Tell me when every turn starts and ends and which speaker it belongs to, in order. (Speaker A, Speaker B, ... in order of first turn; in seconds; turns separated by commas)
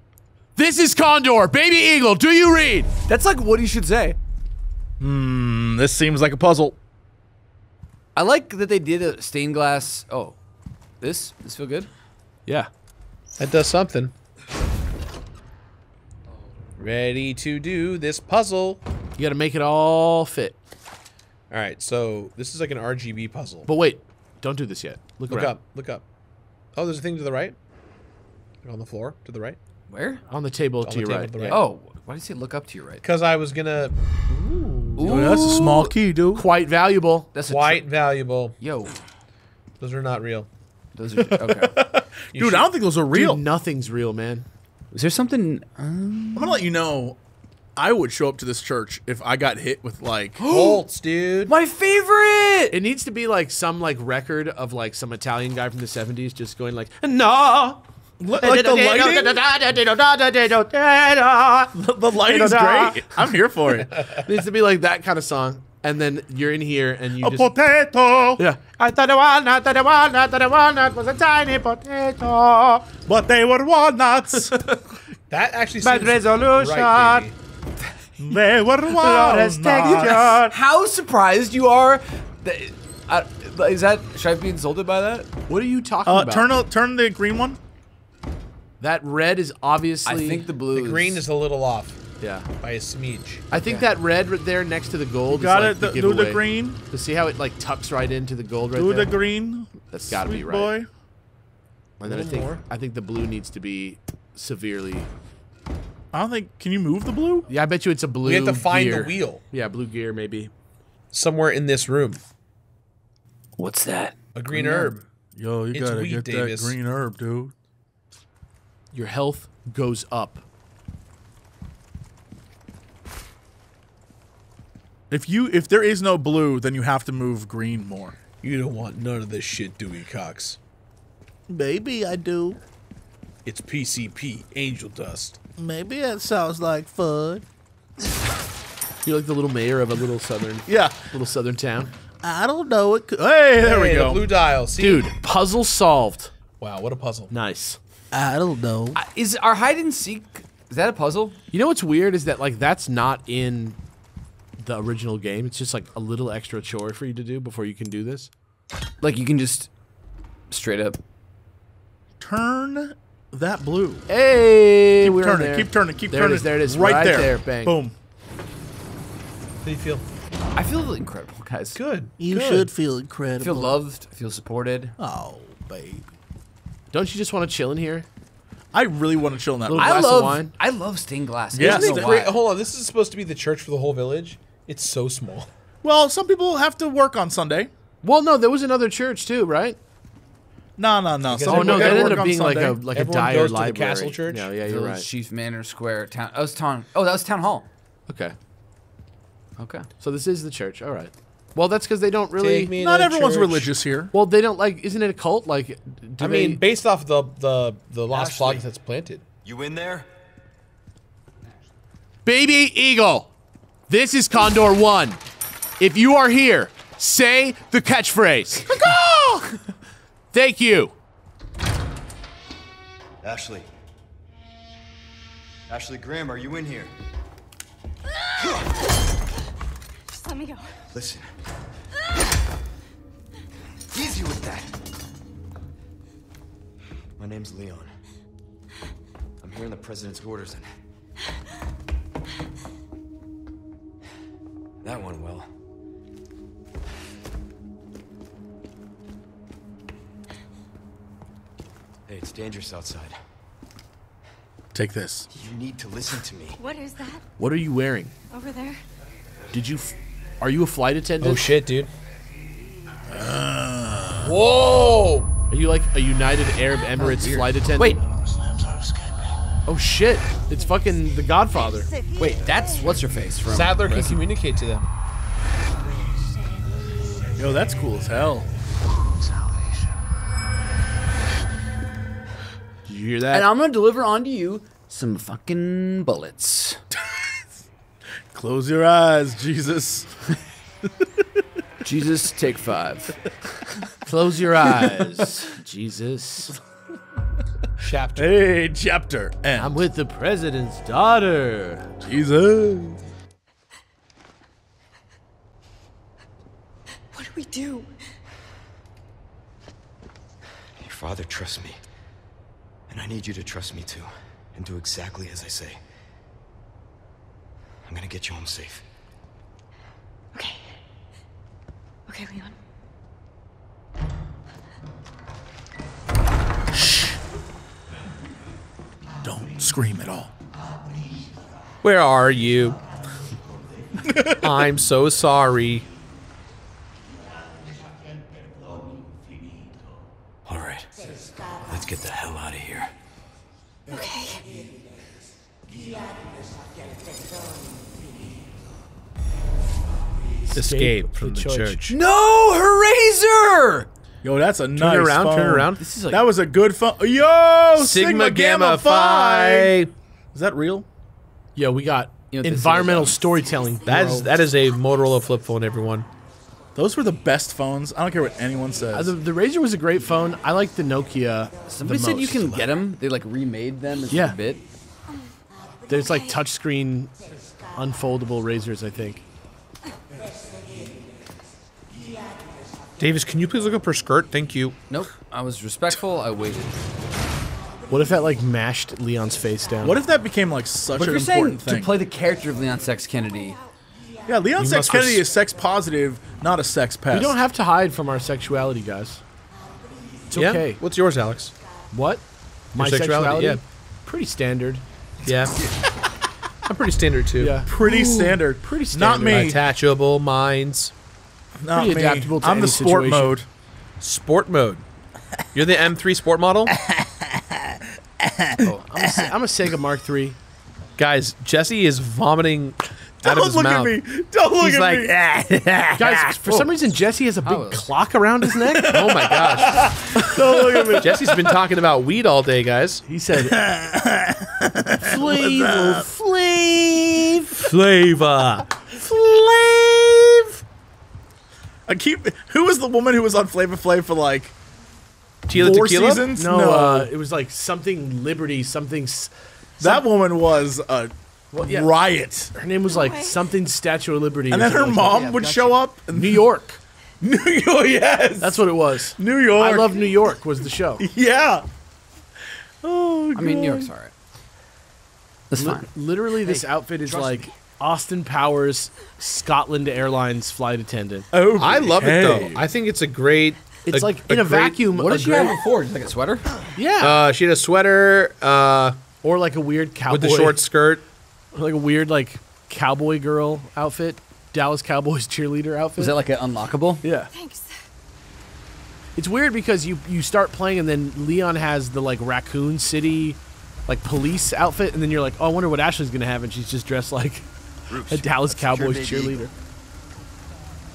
Speaker A: 0.6-2.9, Speaker B: 3.1-4.2, Speaker C: 5.0-6.8, Speaker B: 8.1-10.3, Speaker B: 11.0-11.9, Speaker D: 13.4-14.1, Speaker D: 16.8-18.8, Speaker A: 19.2-20.6, Speaker D: 21.5-23.7, Speaker A: 23.6-25.5, Speaker D: 25.3-26.0, Speaker D: 26.7-27.5, Speaker D: 28.6-29.6, Speaker B: 29.9-30.2, Speaker A: 30.3-31.6, Speaker D: 30.8-31.7, Speaker B: 31.5-33.0, Speaker D: 33.0-35.3, Speaker B: 35.0-35.9, Speaker C: 35.0-36.5, Speaker A: 36.3-37.3, Speaker B: 37.3-37.8, Speaker D: 37.5-38.5, Speaker B: 38.6-39.0, Speaker D: 39.8-40.5, Speaker B: 40.9-41.9, Speaker C: 41.1-43.4, Speaker D: 42.3-42.7, Speaker A: 43.1-44.5, Speaker B: 44.9-46.6, Speaker C: 46.3-47.2, Speaker C: 47.8-50.4, Speaker B: 50.4-50.8, Speaker D: 50.4-51.5, Speaker B: 51.5-52.8, Speaker A: 52.7-57.8, Speaker C: 58.2-59.4, Speaker A: 58.4-63.2, Speaker C: 61.7-64.1, Speaker A: 64.2-67.5, Speaker C: 67.2-68.4, Speaker A: 68.4-72.9, Speaker C: 73.0-74.8, Speaker D: 75.3-77.3, Speaker A: 75.8-77.3, Speaker C: 78.2-80.5, Speaker A: 78.9-80.4, Speaker B: 79.7-85.3, Speaker A: 85.5-86.5, Speaker C: 86.0-87.6, Speaker A: 88.8-90.4, Speaker B: 90.0-91.2, Speaker D: 90.7-92.0, Speaker A: 92.2-92.5, Speaker D: 92.6-93.5, Speaker A: 93.5-99.1, Speaker B: 93.5-93.9, Speaker C: 95.3-96.8, Speaker C: 98.7-100.9, Speaker A: 99.9-100.7, Speaker A: 102.0-105.1, Speaker D: 102.0-102.6, Speaker C: 106.1-107.5, Speaker A: 107.5-110.5, Speaker D: 108.2-109.4, Speaker D: 111.1-112.2, Speaker B: 113.6-114.1, Speaker D: 114.3-115.0, Speaker A: 114.5-114.9, Speaker C: 115.3-117.5, Speaker D: 115.7-116.8, Speaker A: 118.9-120.4, Speaker C: 125.1-128.2, Speaker D: 128.4-130.6, Speaker C: 131.5-132.6, Speaker D: 133.4-135.4, Speaker C: 135.6-137.4, Speaker A: 139.0-141.9, Speaker C: 140.7-141.1, Speaker C: 142.2-144.3, Speaker D: 143.6-145.1, Speaker A: 144.8-146.3, Speaker D: 146.6-147.3, Speaker A: 147.3-147.8, Speaker C: 148.1-149.0, Speaker B: 148.9-151.4, Speaker A: 151.5-153.8, Speaker A: 154.6-158.3, Speaker B: 159.0-159.7, Speaker B: 160.5-161.0, Speaker C: 162.2-164.0, Speaker A: 164.1-167.8, Speaker C: 165.0-167.9, Speaker D: 169.6-170.0, Speaker B: 170.5-171.8, Speaker D: 171.7-172.1, Speaker C: 172.2-173.8, Speaker B: 173.4-174.9, Speaker C: 175.0-176.1, Speaker A: 176.9-178.1, Speaker C: 178.7-180.3, Speaker A: 179.7-180.5, Speaker B: 179.8-182.3, Speaker C: 181.5-182.2, Speaker D: 181.6-185.5, Speaker C: 185.8-187.7, Speaker A: 188.0-189.8, Speaker C: 190.8-192.8, Speaker D: 191.3-192.2, Speaker A: 191.4-195.1, Speaker D: 192.9-194.5, Speaker B: 194.6-197.7, Speaker A: 198.1-198.3, Speaker B: 199.6-199.9, Speaker A: 200.0-202.7, Speaker D: 202.4-203.7, Speaker C: 202.8-204.1, Speaker A: 204.1-206.6, Speaker D: 206.2-209.2, Speaker E: 209.4-210.1, Speaker A: 212.2-213.3, Speaker A: 213.9-215.2, Speaker A: 215.8-219.0, Speaker A: 220.3-220.9, Speaker E: 223.2-223.7, Speaker E: 225.7-226.9, Speaker F: 230.1-230.8, Speaker E: 230.9-231.3, Speaker E: 233.9-234.7, Speaker E: 237.2-237.9, Speaker E: 239.4-240.7, Speaker E: 244.8-245.5, Speaker E: 252.1-253.1, Speaker C: 254.7-255.3, Speaker E: 255.3-256.6, Speaker F: 256.6-257.2, Speaker A: 257.4-258.1, Speaker F: 258.3-258.8, Speaker A: 259.5-261.5, Speaker D: 261.2-261.9, Speaker C: 263.1-264.3, Speaker D: 264.2-265.3, Speaker A: 265.5-268.0, Speaker B: 267.0-267.9, Speaker A: 269.7-271.9, Speaker B: 272.2-274.2, Speaker D: 273.5-274.9, Speaker C: 277.4-278.5, Speaker A: 282.9-283.5, Speaker B: 283.3-286.8, Speaker C: 286.9-287.3, Speaker C: 288.3-290.1, Speaker B: 291.8-293.9, Speaker A: 294.0-296.6, Speaker B: 294.5-295.4, Speaker D: 297.8-298.4, Speaker C: 298.1-299.9, Speaker A: 299.6-301.9, Speaker C: 302.0-303.0, Speaker F: 307.1-307.9, Speaker E: 310.8-311.8, Speaker E: 312.9-315.8, Speaker E: 317.9-318.8, Speaker F: 320.3-320.6, Speaker F: 322.1-322.5, Speaker C: 326.7-327.2, Speaker C: 329.2-330.3, Speaker D: 331.8-332.8, Speaker C: 334.0-334.5, Speaker D: 334.4-335.9, Speaker E: 340.4-340.9, Speaker E: 341.7-342.9, Speaker F: 343.9-344.4, Speaker A: 350.5-351.8, Speaker D: 350.5-352.0, Speaker B: 351.9-353.9, Speaker C: 354.2-359.8, Speaker D: 354.8-355.8, Speaker B: 355.8-356.2, Speaker D: 357.8-359.9, Speaker C: 360.3-360.9, Speaker A: 361.6-364.3, Speaker B: 362.3-363.4, Speaker D: 363.9-366.1, Speaker C: 366.7-369.1, Speaker A: 368.9-372.7, Speaker B: 371.7-374.6, Speaker A: 374.1-374.4, Speaker F: 375.9-376.4, Speaker A: 375.9-377.1, Speaker A: 377.8-379.2, Speaker D: 383.0-384.8, Speaker B: 384.9-386.8, Speaker A: 387.9-390.0, Speaker C: 389.8-391.9, Speaker B: 390.9-393.6, Speaker C: 394.3-397.4, Speaker D: 394.6-395.2, Speaker A: 397.1-399.2, Speaker A: 400.3-400.8, Speaker D: 400.3-401.5, Speaker A: 401.9-404.8, Speaker D: 402.8-403.6, Speaker D: 405.2-405.5, Speaker D: 406.6-407.6, Speaker A: 407.4-409.5, Speaker C: 407.7-409.6, Speaker D: 409.2-410.9, Speaker C: 411.6-413.5, Speaker A: 411.7-413.3, Speaker D: 414.0-414.8, Speaker D: 415.5-416.8, Speaker C: 416.7-419.3, Speaker A: 418.8-420.4, Speaker D: 421.0-424.0, Speaker C: 423.2-426.4, Speaker A: 425.9-429.0, Speaker B: 427.4-427.9, Speaker C: 428.5-431.2, Speaker D: 428.8-429.9, Speaker A: 430.1-431.3, Speaker D: 431.0-433.0, Speaker A: 433.1-433.6, Speaker C: 433.3-436.1, Speaker A: 435.0-437.6, Speaker C: 437.6-438.6, Speaker C: 441.9-444.5, Speaker D: 445.5-446.3, Speaker C: 445.5-447.1, Speaker A: 446.3-450.0, Speaker C: 449.8-452.5, Speaker A: 451.5-451.9, Speaker A: 452.5-455.4, Speaker F: 452.8-453.4, Speaker C: 454.5-456.4, Speaker E: 455.1-455.8, Speaker A: 456.1-456.8, Speaker C: 457.2-460.1, Speaker A: 458.4-461.1, Speaker C: 461.0-461.6, Speaker C: 462.8-463.9, Speaker B: 463.3-464.1, Speaker B: 465.5-465.9, Speaker A: 465.6-471.3, Speaker E: 467.1-467.5, Speaker C: 471.3-472.7, Speaker D: 471.6-474.8, Speaker A: 473.9-475.6, Speaker B: 474.9-476.6, Speaker A: 476.8-477.2, Speaker D: 477.0-479.0, Speaker A: 479.2-480.6, Speaker D: 480.1-481.0, Speaker A: 481.5-486.2, Speaker B: 486.0-487.0, Speaker A: 487.0-487.3, Speaker F: 487.3-487.7, Speaker A: 489.1-497.5, Speaker E: 497.9-499.5, Speaker A: 498.1-499.5